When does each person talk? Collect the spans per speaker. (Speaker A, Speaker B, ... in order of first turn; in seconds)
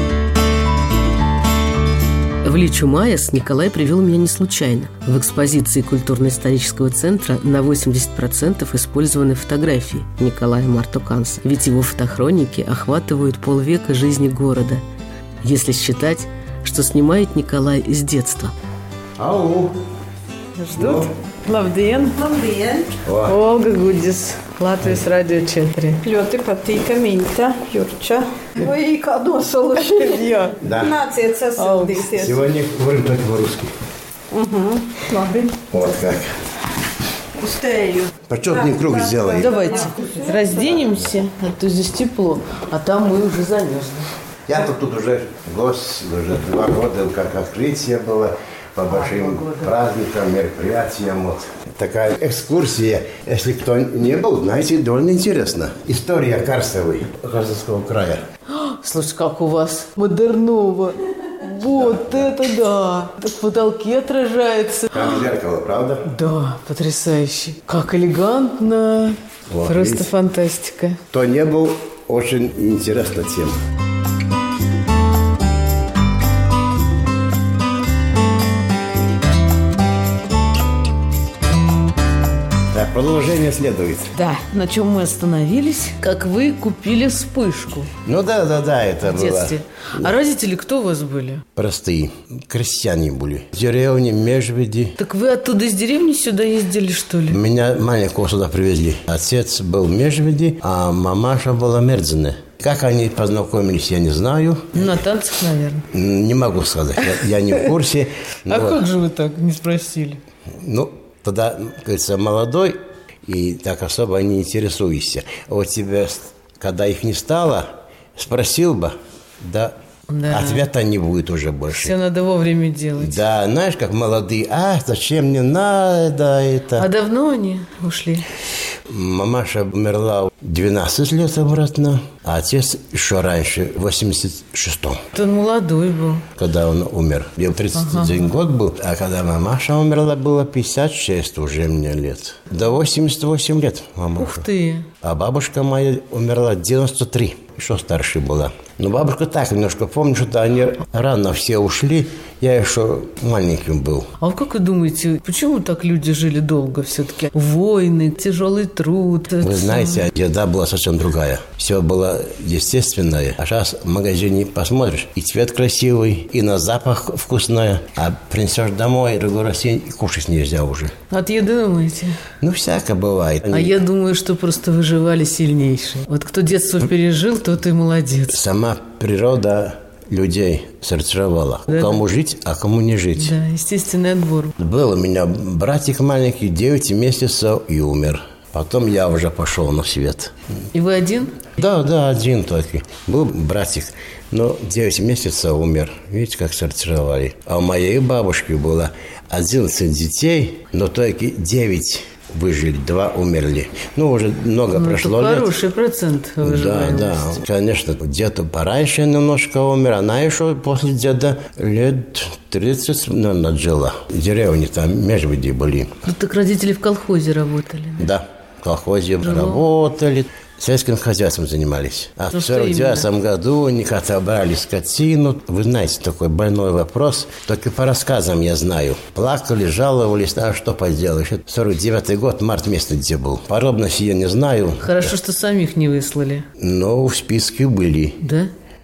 Speaker A: 2.4-14.8, 15.4-18.5
Speaker B: 19.2-19.8, 20.8-21.1, 23.0-23.4, 30.6-31.0, 32.2-33.7, 35.7-36.4, 38.3-39.7, 44.5-58.2, 61.7-62.3, 64.9-66.1, 69.5-70.1, 71.1-73.6, 82.7-84.1, 88.0-90.1, 91.5-95.0, 97.3-105.0, 105.9-108.8, 110.6-119.8, 120.3-122.0, 123.0-126.9, 128.9-135.0, 136.3-144.5, 145.0-154.1, 159.4-170.9, 172.4-173.8, 178.3-183.4, 184.6-190.3, 191.6-205.5, 206.4-215.9, 218.0-235.2, 236.6-238.2
Speaker C: 20.6-22.2, 23.2-26.0, 29.8-30.6, 31.6-32.2, 39.4-44.1, 49.0-49.7, 58.5-65.2, 66.0-71.0, 84.1-87.9, 89.0-91.5, 95.0-97.4, 104.7-105.9, 108.5-110.2, 120.1-120.7, 121.7-123.2, 126.8-128.3, 135.1-136.3, 137.7-138.2, 144.2-144.9, 154.2-160.1, 171.1-172.2, 173.5-178.4, 181.7-182.0, 183.2-184.6, 190.7-191.5, 204.7-207.4, 216.0-218.1, 219.2-219.6, 222.3-223.1, 234.8-236.5, 238.2-238.5
Speaker D: 22.2-22.9, 26.0-32.4, 34.3-35.6, 37.4-40.7